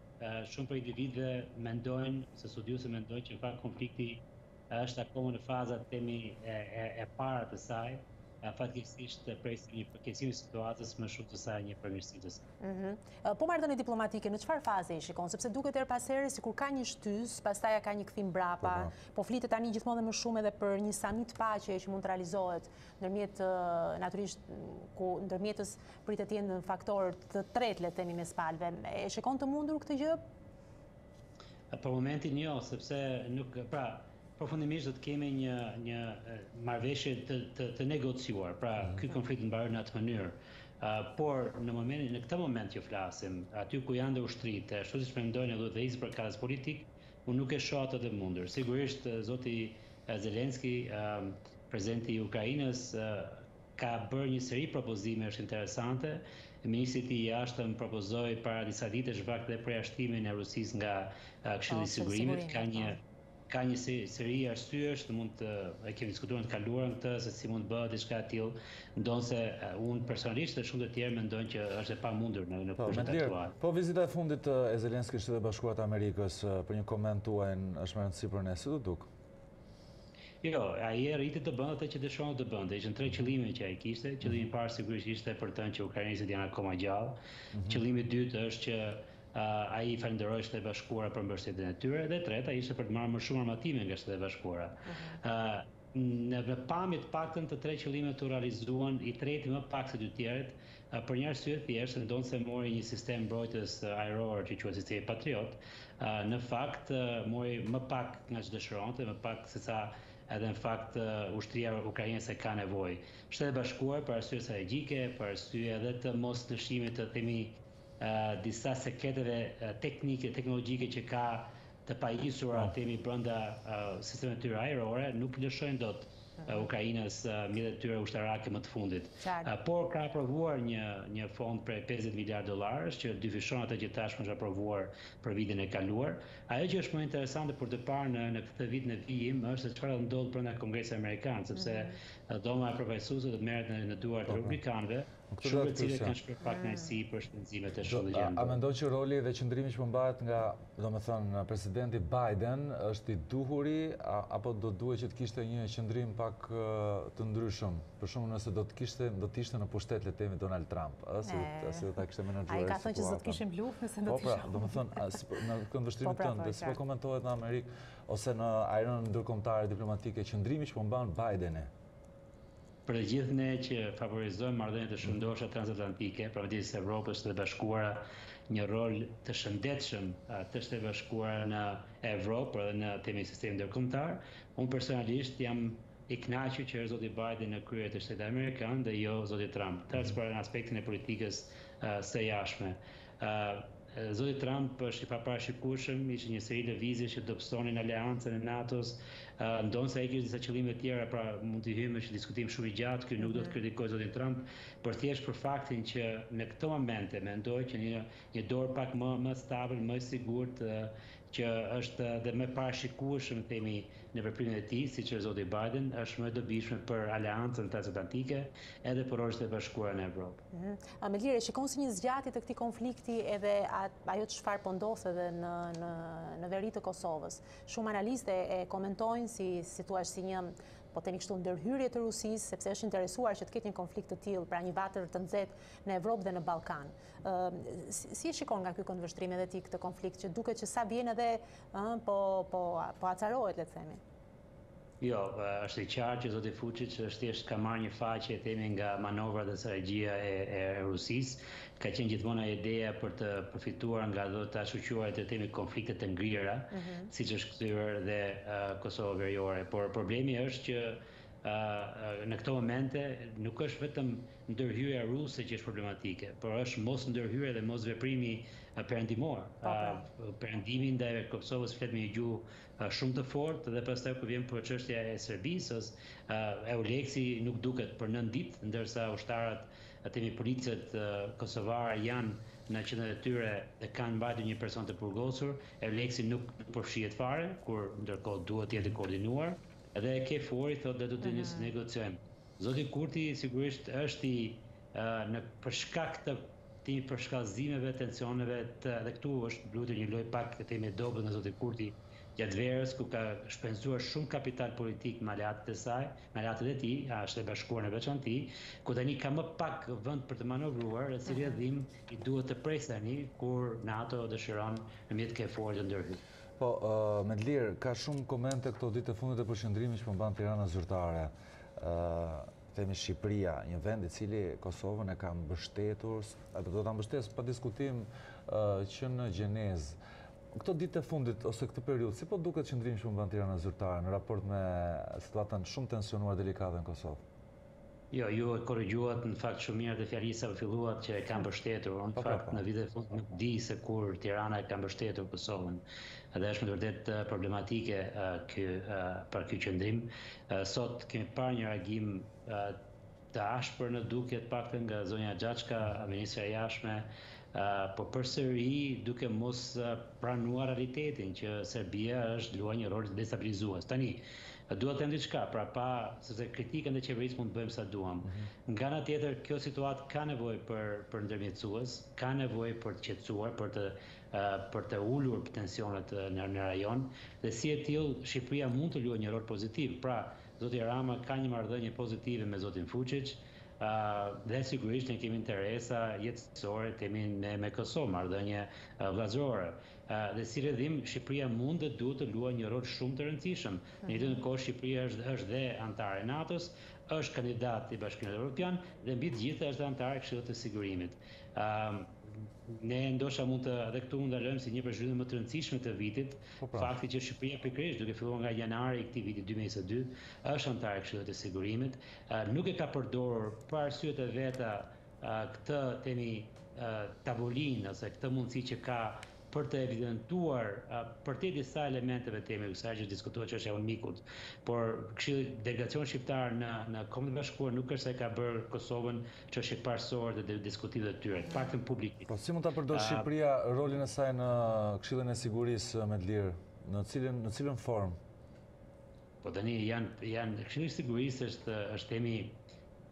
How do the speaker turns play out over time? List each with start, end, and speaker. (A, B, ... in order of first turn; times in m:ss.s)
0:00.2-0:12.4 A
0:12.6-0:30.2 B
0:18.6-0:18.9 C
0:31.7-1:13.5 A
1:01.7-1:03.0 B
1:12.8-1:19.1 C
1:20.4-2:28.6 A
1:27.5-1:27.8 C
1:34.9-1:35.2 B
2:09.2-2:09.5 B
2:21.6-2:21.9 B
2:24.3-2:24.6 C
2:25.3-2:26.2 C
2:26.5-2:26.8 B
2:27.8-2:43.4 C
2:41.2-2:45.2 B
2:44.0-2:51.7 C
2:46.0-2:46.8 B
2:52.9-3:40.4 A
3:40.5-4:04.0 B
4:05.0-5:16.2 A
4:16.7-4:17.1 B
4:29.6-4:30.0 B
4:51.2-4:51.7 B
5:16.6-5:30.0 C
5:30.6-5:37.2 C
5:38.1-7:12.3 A
5:42.1-5:42.6 C
6:08.2-6:08.5 C
6:46.6-6:46.9 C
7:12.3-7:18.2 C
7:12.9-7:13.3 A
7:19.4-7:22.6 A